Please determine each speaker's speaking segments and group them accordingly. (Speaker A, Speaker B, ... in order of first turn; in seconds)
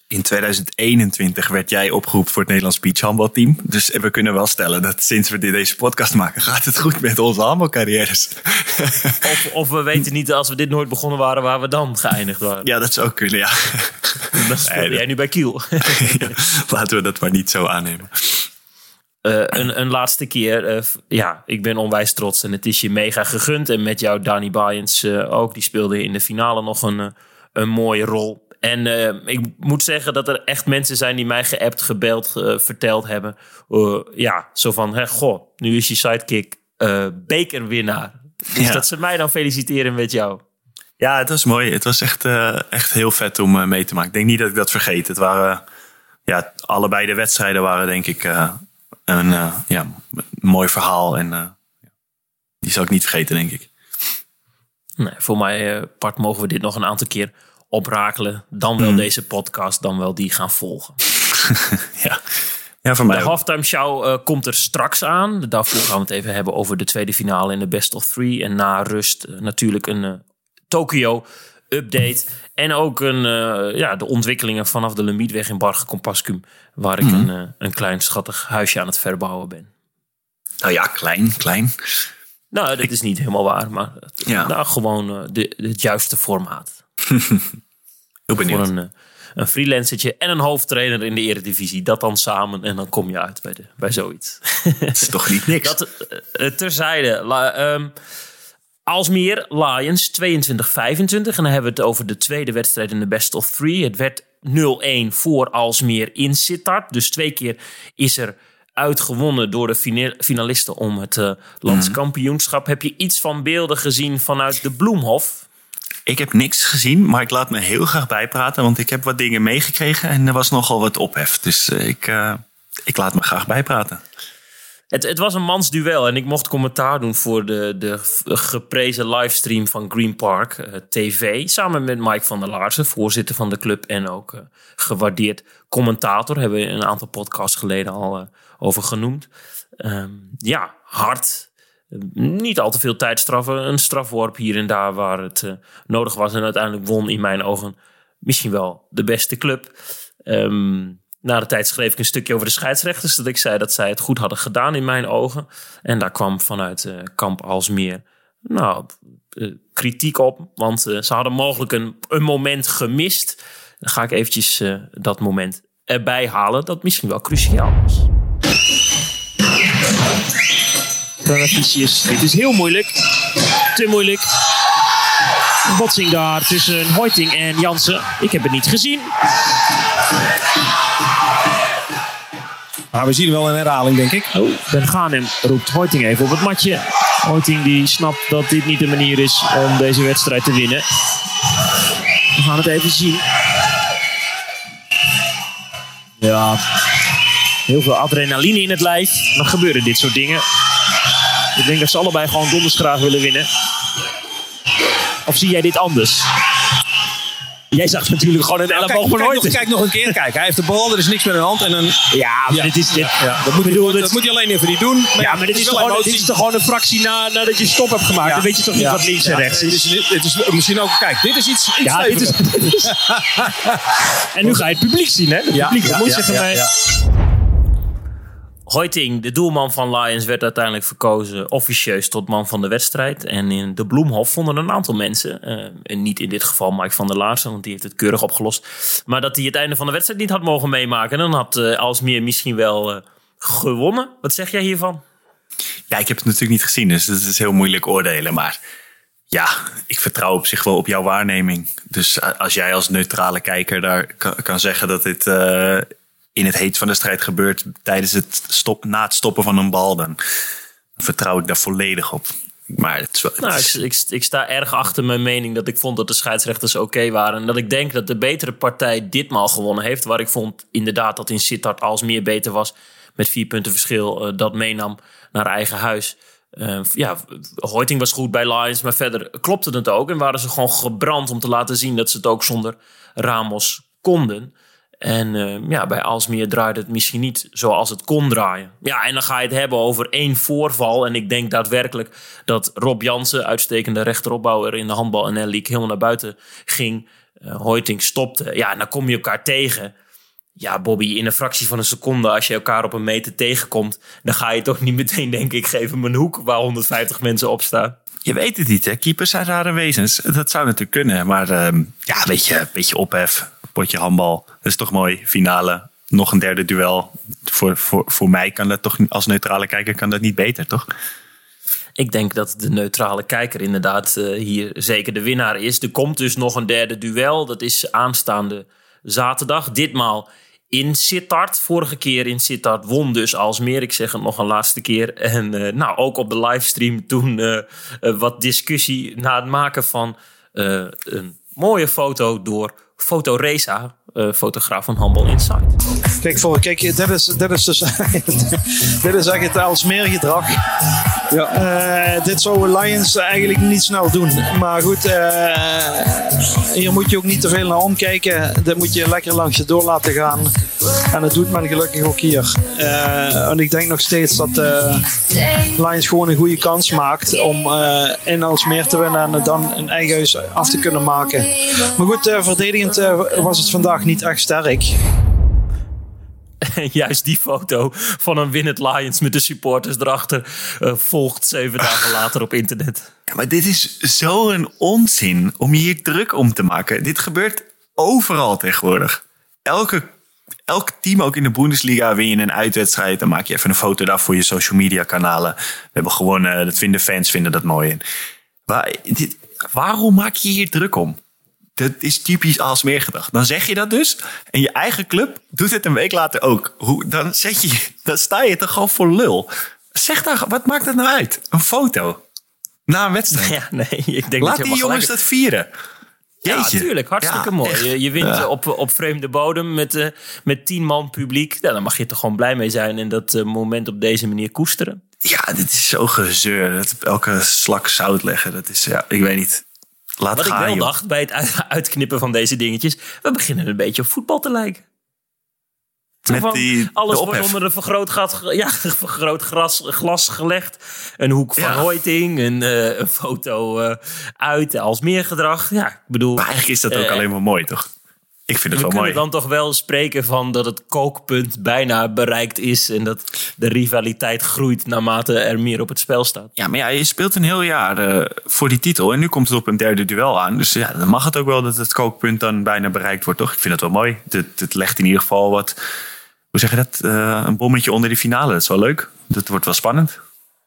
Speaker A: 0.1-9.2, 12.6-15.0, 15.9-18.5, 38.5-38.8, 41.0-45.6, 46.3-51.6, 52.6-53.7, 58.8-59.0, 61.5-62.2, 62.8-63.4, 77.0-77.3, 80.6-81.7, 84.2-84.5, 87.1-87.4, 88.3-88.7, 95.0-95.8, 111.7-112.0, 116.1-124.0, 245.9-248.6, 249.3-260.2, 261.0-263.8, 308.2-320.9, 383.3-390.1, 390.7-398.0, 398.7-401.2, 401.8-412.2, 412.9-413.5, 414.4-415.7, 416.5-418.5, 425.2-429.6, 430.2-430.9, 436.3-437.6, 441.6-441.9, 446.4-447.9, 448.5-449.2, 456.6-465.8, 466.5-470.2
Speaker B: 9.2-12.7, 14.3-16.4, 19.2-40.4, 55.0-61.0, 63.1-79.7, 82.5-86.8, 88.5-97.9, 98.9-115.5, 124.9-139.3, 139.8-149.7, 150.2-168.1, 171.2-172.9, 173.8-174.2, 175.7-179.1, 184.3-190.8, 192.4-193.2, 196.2-196.6, 197.7-200.4, 201.6-203.4, 205.3-206.2, 207.7-209.7, 212.1-214.1, 215.2-219.8, 221.8-222.8, 224.3-226.6, 228.7-245.0, 263.4-299.9, 300.6-308.0, 322.0-345.7, 376.6-383.1, 413.3-415.1, 416.4-425.0, 430.4-434.8, 436.2-447.2, 448.7-456.5
Speaker C: 182.9-184.3, 208.7-216.3, 218.2-223.7, 225.5-226.7
Speaker D: 346.2-350.6, 351.3-360.5, 361.1-365.1, 365.8-374.9